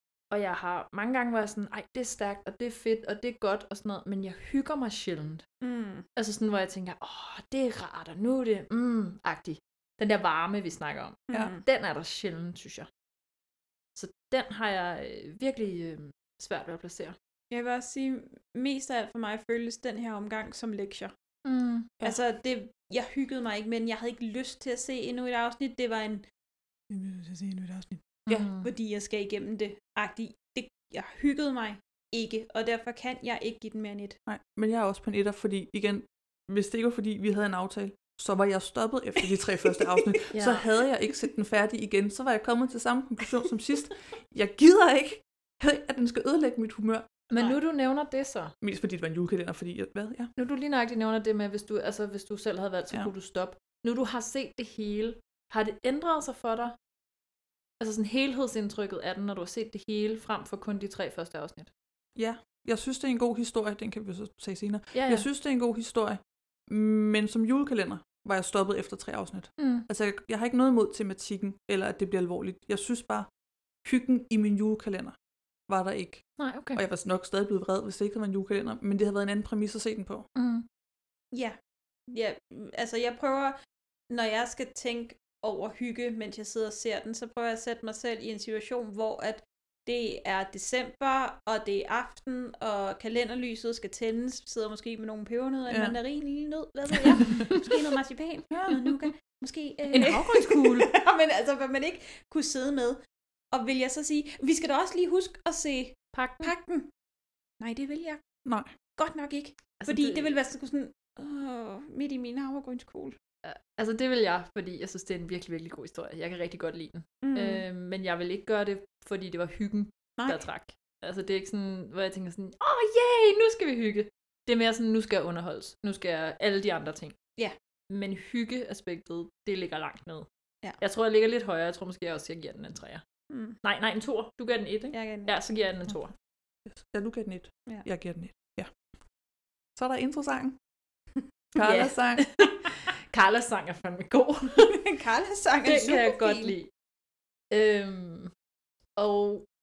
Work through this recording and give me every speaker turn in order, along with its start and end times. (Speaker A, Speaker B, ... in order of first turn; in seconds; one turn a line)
Speaker A: 0.3-5.4
Speaker B: 5.6-6.0
Speaker A: 6.2-12.9
Speaker B: 11.3-11.6
Speaker A: 13.9-17.1
Speaker B: 17.5-21.1
Speaker A: 21.4-22.1
Speaker B: 22.0-26.2
Speaker B: 26.9-28.1
Speaker A: 28.3-28.7
Speaker B: 28.6-34.2
Speaker C: 34.3-47.1
Speaker A: 40.3-40.7
Speaker A: 47.3-48.5
Speaker C: 48.6-50.3
Speaker A: 50.4-56.8
Speaker A: 57.8-61.7
Speaker C: 62.1-73.3
Speaker A: 64.9-65.2
Speaker A: 69.6-69.8
Speaker C: 73.8-75.2
Speaker C: 75.7-80.3
Speaker A: 76.4-76.8
Speaker A: 80.3-80.7
Speaker B: 82.1-83.5
Speaker B: 84.1-103.0
Speaker C: 95.7-96.0
Speaker C: 98.5-99.0
Speaker A: 99.9-100.9
Speaker B: 103.5-106.9
Speaker A: 106.1-106.5
Speaker B: 107.6-108.2
Speaker C: 108.4-108.7
Speaker B: 109.0-113.2
Speaker A: 109.8-110.4
Speaker A: 113.4-127.2
Speaker B: 117.2-117.6
Speaker B: 120.2-120.4
Speaker A: 127.9-130.3
Speaker A: 130.8-133.0
Speaker B: 133.3-133.6
Speaker A: 133.6-136.1
Speaker B: 134.9-135.3
Speaker C: 136.7-138.7
Speaker C: 139.8-140.6
Speaker C: 141.5-142.3
Speaker A: 141.6-144.8
Speaker B: 144.6-146.5
Speaker A: 145.6-146.7
Speaker A: 147.5-148.3
Speaker A: 149.0-149.4